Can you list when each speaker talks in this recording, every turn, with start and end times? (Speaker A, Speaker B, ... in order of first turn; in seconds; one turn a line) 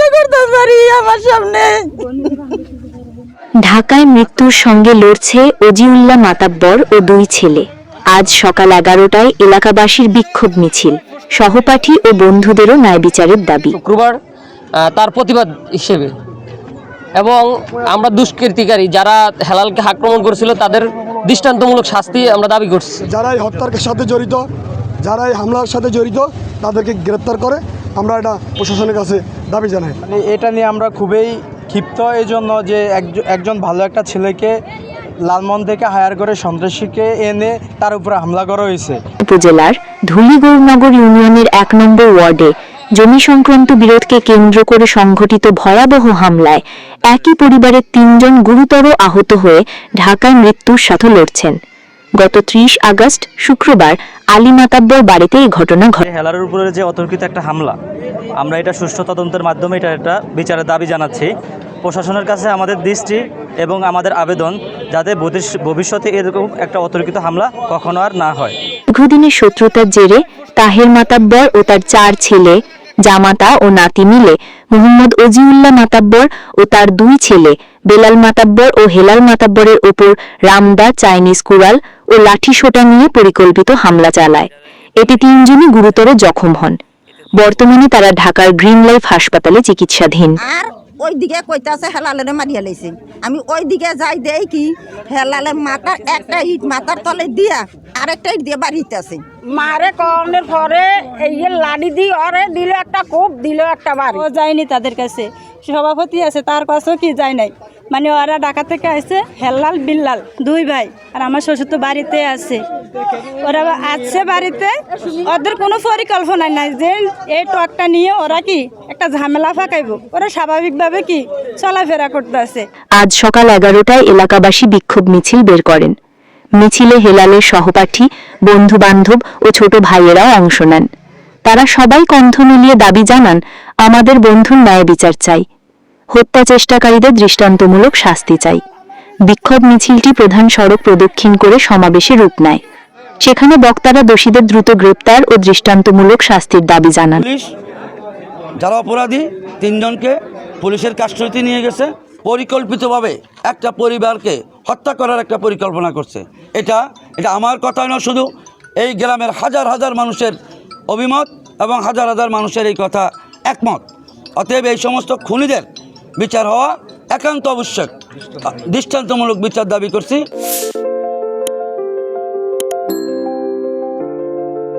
Speaker A: 3.6-13.8
Speaker B: 13.7-14.2
Speaker B: 14.7-16.1
Speaker B: 17.1-23.0
Speaker C: 23.1-24.4
Speaker C: 25.1-29.9
Speaker D: 30.0-34.5
Speaker D: 35.3-39.0
Speaker A: 39.2-51.6
Speaker A: 52.2-56.0
Speaker E: 56.0-57.8
Speaker E: 58.4-61.3
Speaker E: 61.8-68.5
Speaker A: 68.9-86.8
Speaker A: 87.4-90.4
Speaker F: 90.5-99.2
Speaker G: 99.5-104.2
Speaker H: 104.1-112.6
Speaker H: 113.4-114.7
Speaker H: 115.2-122.6
Speaker A: 123.0-125.9
Speaker A: 126.6-130.9
Speaker A: 131.4-135.4
Speaker A: 136.1-138.6
Speaker A: 139.2-142.6
Speaker A: 143.2-147.2
Speaker I: 147.2-147.5
Speaker I: 148.6-158.3
Speaker I: 158.8-160.3
Speaker I: 160.9-163.8
Speaker I: 164.4-165.7
Speaker I: 166.2-167.9
Speaker I: 168.4-170.2